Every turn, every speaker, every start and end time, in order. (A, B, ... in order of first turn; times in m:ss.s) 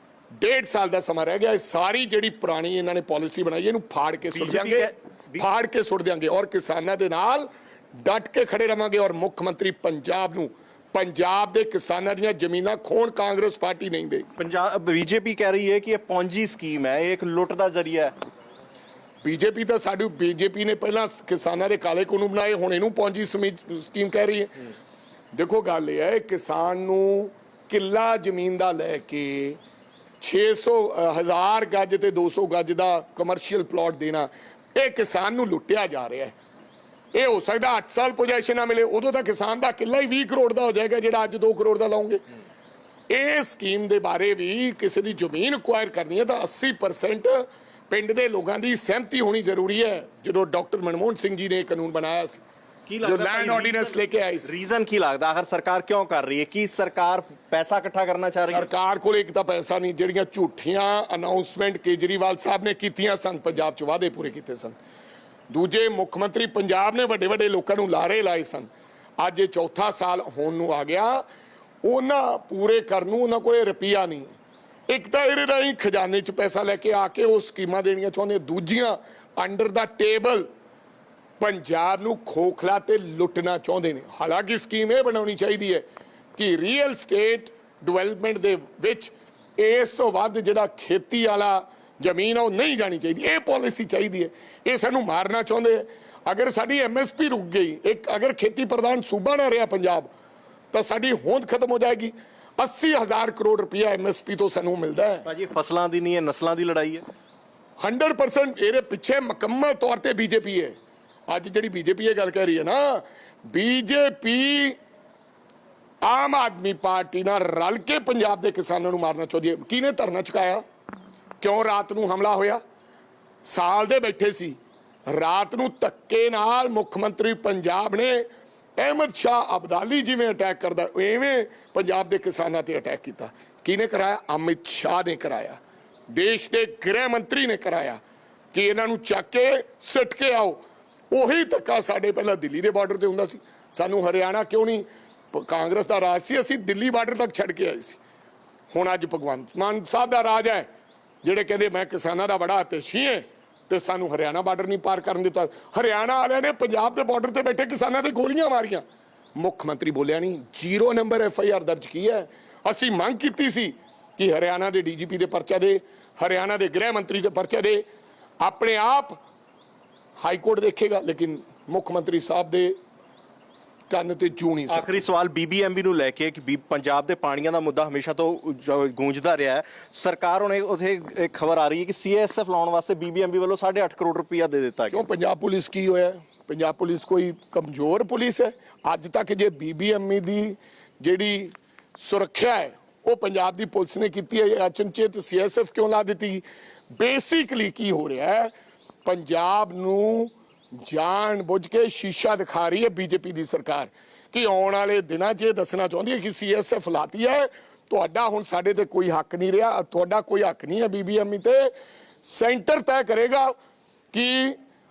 0:00.4-0:14.3 A
0:04.3-0:05.4 B
0:14.4-0:18.1 B
0:19.2-0:24.7 A
0:25.3-0:29.6 A
0:30.2-0:36.3 A
0:37.1-0:42.2 A
0:43.1-0:52.4 A
0:52.9-0:58.7 B
0:53.0-0:54.5 A
0:58.5-1:04.8 A
1:05.5-1:11.2 A
1:11.8-1:14.3 A
1:14.9-1:20.5 A
1:21.4-1:25.8 A
1:26.4-1:40.1 A
1:40.7-1:45.2 A
1:45.2-1:47.0 B
1:47.8-1:50.7 A
1:51.3-1:54.8 A
1:56.0-2:00.6 A
2:01.4-2:02.6 A
2:03.4-2:08.2 A
2:08.8-2:15.6 A
2:16.1-2:18.0 A
2:18.5-2:20.6 A
2:21.1-2:28.0 A
2:28.7-2:30.6 A
2:31.2-2:38.8 A
2:39.4-2:47.8 A
2:48.4-2:49.2 A
2:50.2-2:52.7 A
2:53.9-2:54.9 A
2:54.7-3:05.0 B
3:04.9-3:18.5 A
3:19.0-3:31.7 A
3:32.2-3:33.5 A
3:34.1-3:34.6 A